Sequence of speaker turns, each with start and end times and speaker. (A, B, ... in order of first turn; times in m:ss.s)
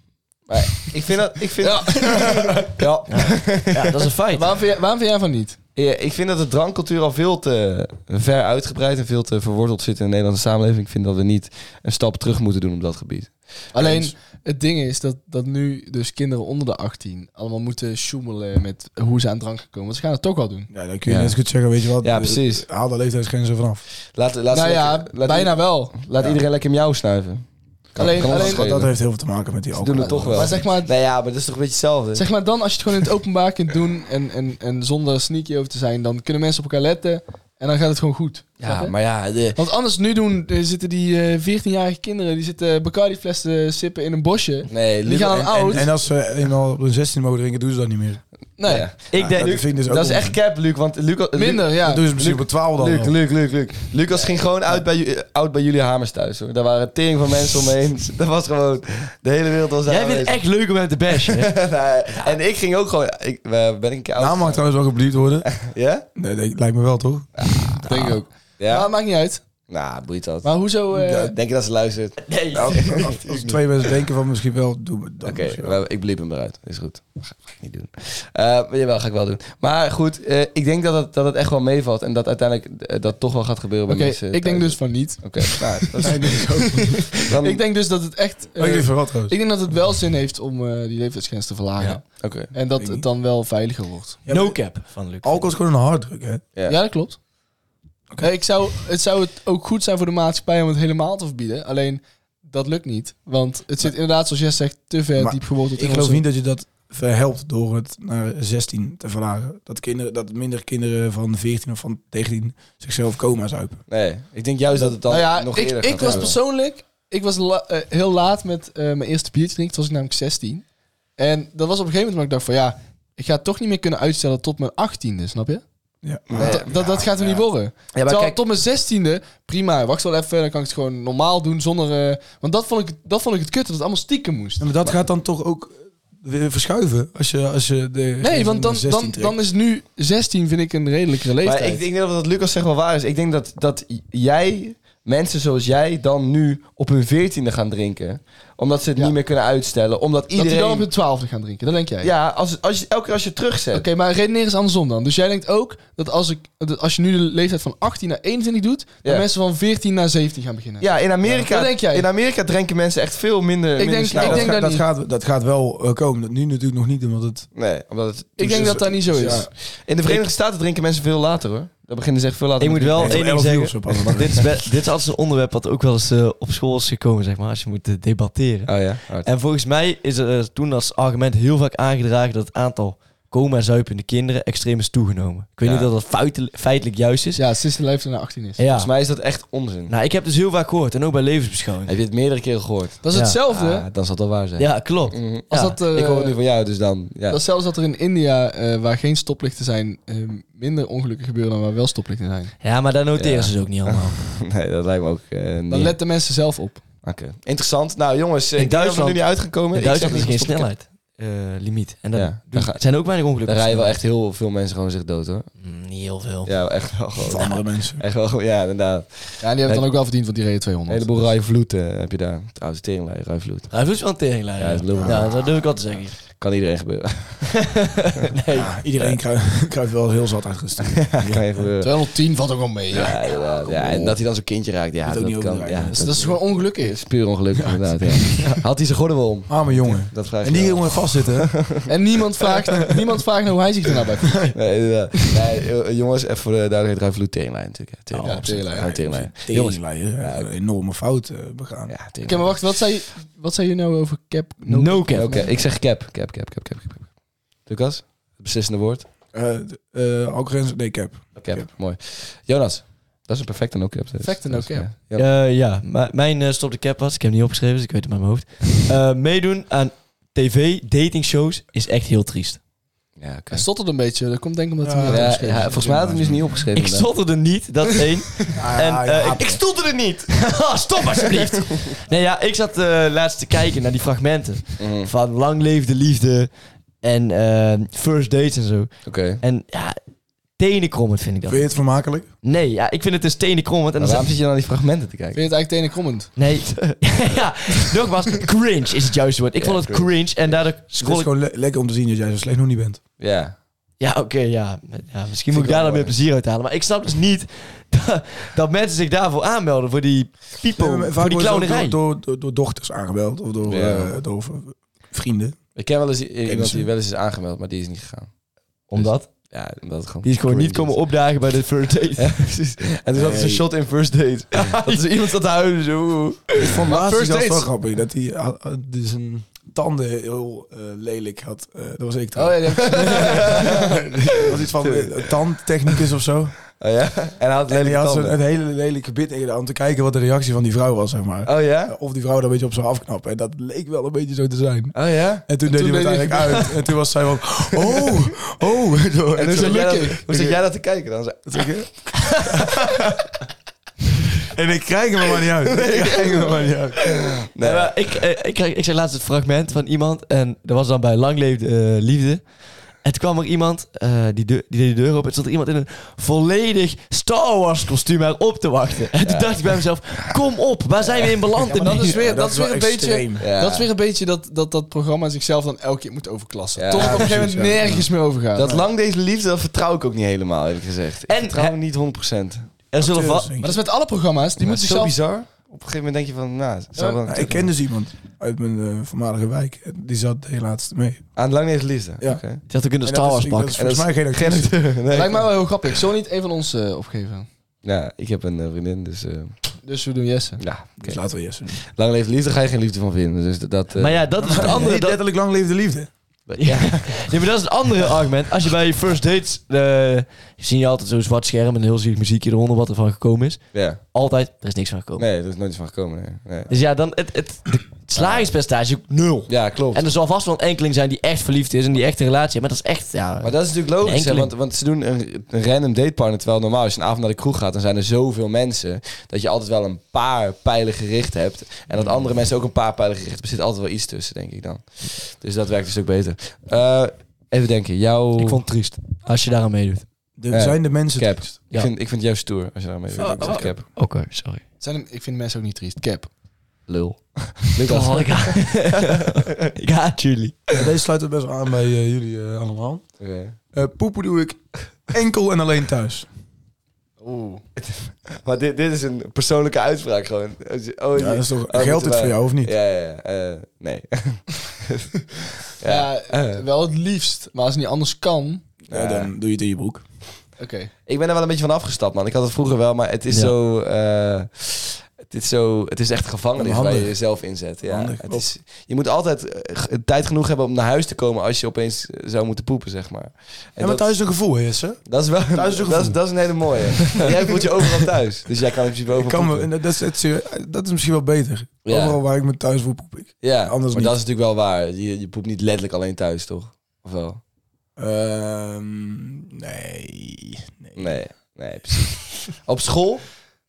0:00.5-0:03.9 A
0:01.6-0:02.7 B
0:03.1-0:04.5 C
0:04.3-0:05.6 B
0:05.8-0:14.1 A
0:13.7-0:20.7 B
0:20.7-0:23.8 D
0:21.0-0:21.4 A
0:22.0-0:22.6 A
0:24.1-0:28.9 A
0:24.5-0:26.0 B
0:28.0-0:28.7 B
0:28.0-0:30.6 D
0:29.7-0:32.2 A
0:30.0-0:30.9 B
0:32.1-0:45.9 B
0:38.6-0:39.6 A
0:44.7-0:45.9 A
0:45.3-0:48.2 D
0:48.6-0:48.9 B
0:48.6-1:00.4 A
0:49.1-0:49.7 C
0:49.1-0:50.4 D
0:51.3-0:52.1 B
0:51.8-0:53.2 D
0:59.8-1:02.3 C
1:01.1-1:04.6 A
1:04.2-1:05.6 D
1:05.5-1:06.0 A
1:06.1-1:07.3 D
1:07.4-1:08.0 A
1:07.8-1:09.4 B
1:08.6-1:08.9 A
1:09.7-1:10.6 A
1:10.4-1:11.3 B
1:10.9-1:11.3 D
1:11.3-1:13.6 A
1:12.2-1:13.1 C
1:12.5-1:15.8 D
1:15.2-1:26.4 A
1:23.9-1:34.2 B
1:26.0-1:27.1 D
1:27.1-1:27.6 A
1:28.6-1:29.3 D
1:32.2-1:32.5 A
1:32.8-1:33.0 D
1:34.2-1:36.4 D
1:34.3-1:35.5 C
1:36.7-1:37.2 B
1:38.2-1:46.2 B
1:45.2-1:53.8 D
1:53.9-1:56.3 A
1:55.0-2:00.6 B
1:56.0-1:56.3 D
2:01.2-2:05.6 B
2:06.0-2:07.0 D
2:06.3-2:07.3 A
2:06.3-2:14.7 B
2:07.9-2:08.4 A
2:14.6-2:19.4 D
2:18.2-2:21.8 B
2:21.4-2:30.9 A
2:30.3-2:32.1 B
2:32.0-2:33.8 A
2:33.7-2:42.1 B
2:40.8-2:44.5 A
2:43.8-2:44.8 B
2:44.1-2:47.5 D
2:47.5-2:53.4 A
2:48.4-2:49.5 B
2:48.4-2:49.5 D
2:52.6-3:07.4 C
2:53.0-2:54.5 D
2:58.7-2:59.3 A
3:05.6-3:05.9 A
3:07.4-3:08.6 B
3:08.6-3:08.9 C
3:08.7-3:09.9 A
3:09.9-3:11.9 C
3:11.8-3:17.4 A
3:13.0-3:13.9 B
3:14.6-3:15.8 C
3:15.5-3:16.4 B
3:17.3-3:22.5 B
3:22.6-3:24.2 C
3:23.2-3:26.0 A
3:25.7-3:26.8 B
3:27.0-3:30.7 A
3:28.6-3:33.9 C
3:32.1-3:35.5 A
3:35.6-3:36.6 C
3:36.4-3:39.9 A
3:37.2-3:38.0 D
3:39.4-3:41.3 B
3:40.9-3:43.9 A
3:43.7-3:46.2 C
3:44.6-3:47.8 A
3:45.0-3:45.3 D
3:47.8-3:48.7 C
3:48.5-3:51.7 D
3:50.9-3:52.1 A
3:51.8-3:53.2 B
3:52.9-4:01.9 A
3:53.0-3:54.2 D
3:55.0-3:56.4 D
3:55.9-3:57.0 B
3:57.5-3:58.3 D
3:59.5-4:01.7 D
4:01.9-4:04.4 B
4:04.5-4:10.5 A
4:08.1-4:08.6 C
4:08.2-4:08.9 B
4:08.7-4:11.9 D
4:11.9-4:12.7 A
4:12.2-4:15.5 B
4:14.7-4:15.5 C
4:15.1-4:19.1 A
4:19.3-4:21.7 D
4:21.4-4:25.3 A
4:24.2-4:24.9 B
4:25.1-4:32.6 C
4:33.2-4:33.6 A
4:33.5-4:35.9 B
4:34.8-4:36.6 D
4:35.1-4:37.1 A
4:36.7-4:39.6 C
4:38.6-4:39.6 D
4:39.3-4:40.5 A
4:40.3-4:50.0 C
4:44.8-4:45.1 A
4:49.0-4:49.4 A
4:50.5-4:54.3 C
4:51.5-4:52.3 D
4:54.0-4:55.4 A
4:55.3-4:56.3 B
4:56.4-5:01.3 C
4:59.6-5:00.5 A
5:01.0-5:03.0 D
5:03.2-5:03.5 A
5:04.0-5:12.0 C
5:05.5-5:06.1 A
5:10.8-5:15.6 D
5:13.6-5:14.1 A
5:15.8-5:18.3 A
5:16.4-5:16.9 D
5:18.9-5:19.5 C
5:18.9-5:21.0 A
5:20.2-5:22.4 C
5:22.2-5:26.7 A
5:23.1-5:23.7 D
5:24.5-5:25.1 C
5:26.6-5:36.6 D
5:26.9-5:27.7 B
5:32.3-5:33.8 B
5:32.8-5:35.3 A
5:36.8-5:38.3 A
5:37.7-5:50.6 D
5:41.4-5:41.9 A
5:44.9-5:45.4 A
5:45.6-5:46.7 B
5:49.4-5:52.3 A
5:49.5-5:50.2 B
5:51.4-5:52.8 D
5:54.5-5:57.2 D
5:55.6-5:57.9 A
5:57.6-6:12.2 C
6:09.2-6:09.9 A
6:11.0-6:11.3 A
6:11.7-6:18.7 B
6:11.8-6:13.5 D
6:13.4-6:13.9 A
6:16.8-6:17.3 A
6:16.9-6:18.1 D
6:18.6-6:22.7 A
6:18.6-6:18.8 D
6:21.3-6:21.8 C
6:22.9-6:23.5 C
6:23.0-6:23.8 D
6:23.6-6:25.2 B
6:24.6-6:27.7 A
6:27.2-6:31.3 D
6:31.4-6:32.6 A
6:32.7-6:33.8 C
6:33.0-6:34.8 D
6:33.8-6:35.6 A
6:35.1-6:37.5 B
6:37.8-6:39.6 A
6:39.8-6:40.6 B
6:40.6-6:44.7 A
6:41.0-6:41.8 D
6:44.0-6:45.2 C
6:44.4-6:46.1 D
6:46.5-6:47.3 A
6:46.6-6:55.2 C
6:53.7-6:54.0 A
6:55.2-6:56.7 A
6:56.7-7:04.5 C
6:58.2-6:58.5 A
6:59.5-7:00.0 A
7:03.4-7:18.6 A
7:18.4-7:20.1 C
7:20.4-7:21.5 D
7:20.5-7:23.8 A
7:23.1-7:23.7 D
7:23.2-7:24.6 C
7:24.8-7:26.3 B
7:26.9-7:28.8 A
7:27.8-7:30.7 C
7:30.7-7:33.0 D
7:33.2-7:33.6 A
7:33.7-7:36.3 D
7:37.2-7:37.6 B
7:37.8-7:46.6 A
7:41.1-7:42.7 D
7:45.8-7:48.6 B
7:48.9-7:49.3 A
7:48.9-7:50.0 D
7:50.6-7:50.9 B
7:51.0-8:04.1 A
7:56.6-7:58.5 D
8:03.8-8:08.0 D
8:05.0-8:09.7 A
8:09.1-8:14.2 D
8:11.8-8:12.2 A
8:13.4-8:17.4 A
8:18.0-8:21.2 D
8:21.0-8:23.4 A